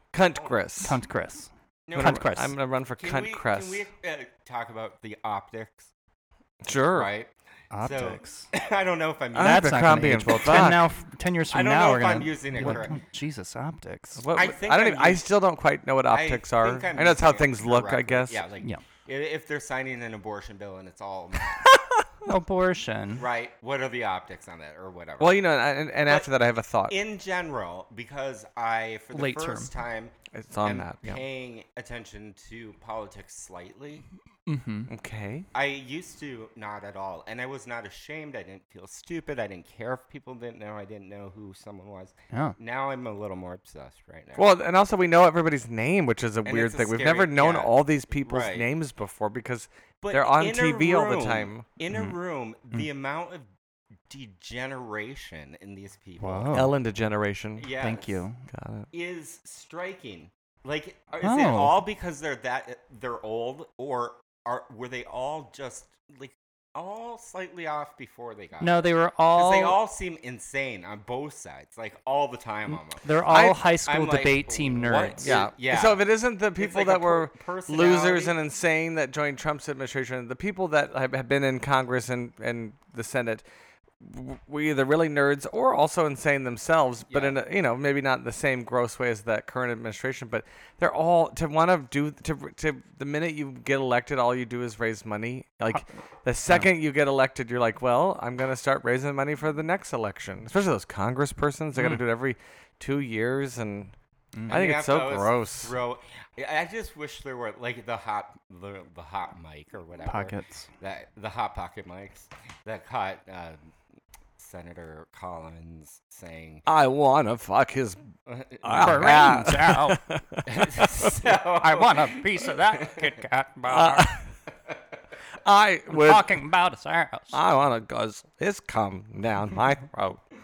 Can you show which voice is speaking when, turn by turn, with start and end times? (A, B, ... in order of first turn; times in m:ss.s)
0:00.1-0:00.9 A
0:00.8-0:02.5 B
0:01.9-0:02.4 C
0:01.9-0:03.8 A
0:03.0-0:05.9 C
0:06.6-0:07.1 A
0:06.7-0:09.8 C
0:07.7-0:08.5 B
0:09.3-0:10.8 A
0:09.3-0:14.2 B
0:11.5-0:13.0 C
0:14.2-0:18.4 A
0:14.3-0:15.3 C
0:16.1-0:21.6 C
0:22.2-0:23.2 B
0:23.2-0:25.5 C
0:25.2-0:27.0 A
0:26.1-0:26.3 C
0:26.9-0:34.0 C
0:29.1-0:29.7 B
0:30.3-0:31.2 A
0:34.5-0:34.9 B
0:34.9-0:35.5 A
0:35.5-0:44.5 C
0:42.3-0:42.6 B
0:44.4-0:51.7 A
0:46.4-0:48.7 C
0:50.0-0:53.5 C
0:54.1-0:56.6 C
0:56.2-0:56.7 B
0:56.5-0:57.7 A
0:57.6-0:58.2 C
0:57.8-0:58.4 B
0:58.5-0:58.9 A
0:58.9-1:18.4 C
1:01.2-1:01.8 B
1:08.6-1:09.8 B
1:12.7-1:15.3 B
1:13.3-1:13.6 A
1:15.2-1:23.4 A
1:24.0-1:43.9 A
1:27.1-1:27.4 C
1:41.8-1:42.0 B
1:44.3-1:44.6 B
1:44.5-1:45.7 A
1:44.5-1:53.7 C
1:50.0-1:50.7 B
1:54.4-1:56.6 C
1:56.6-1:58.1 A
1:58.2-1:59.2 C
1:58.6-2:01.2 A
1:58.8-2:00.0 B
2:00.4-2:03.0 C
2:01.6-2:04.1 B
2:03.7-2:04.2 A
2:05.4-2:06.4 A
2:06.0-2:07.4 B
2:07.3-2:10.2 A